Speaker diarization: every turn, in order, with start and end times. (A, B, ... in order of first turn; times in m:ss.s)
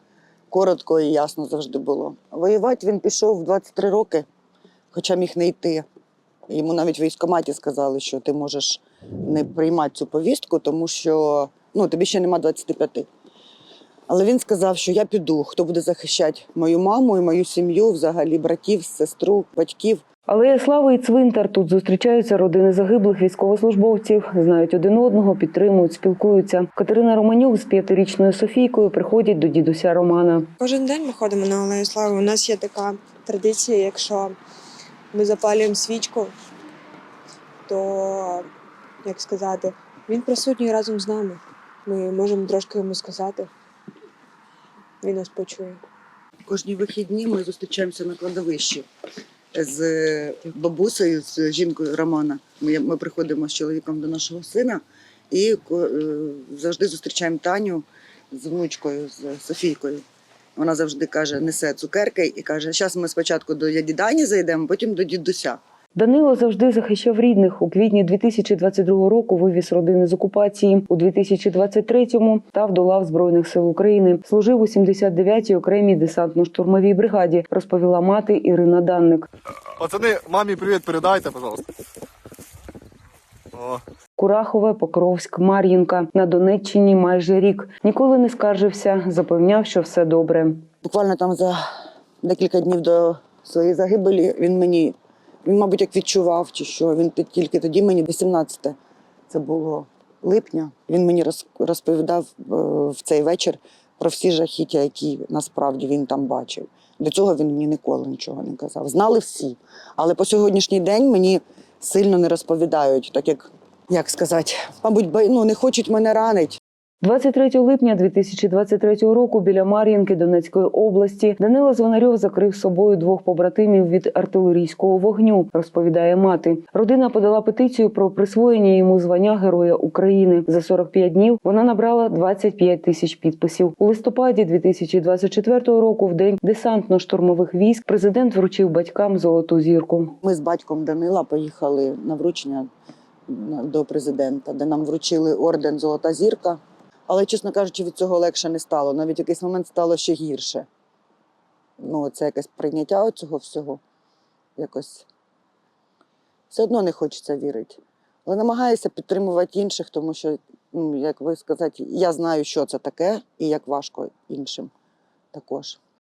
0:00.5-0:04.3 A
0:04.9-0:05.8 A
0:06.5-0:13.1 A
0:14.1-0:20.0 A
0:20.3-0:30.5 B
0:30.6-0:34.4 C
0:35.1-0:36.3 C
0:37.7-0:38.5 C
0:39.0-0:43.5 C
0:45.0-0:45.8 C
0:46.5-0:48.9 A
0:49.5-1:00.0 A
1:00.6-1:05.6 A
1:06.0-1:19.3 B
1:19.8-1:21.7 D
1:23.6-1:23.8 D
1:24.2-1:30.6 B
1:30.8-1:31.6 A
1:32.2-1:38.8 A
1:39.3-1:56.6 A
1:57.0-2:20.1 B
2:20.2-2:22.7 A
2:23.3-2:30.7 A
2:31.8-2:33.8 A
2:34.6-2:35.1 A
2:36.5-2:44.7 A
2:45.3-2:45.8 A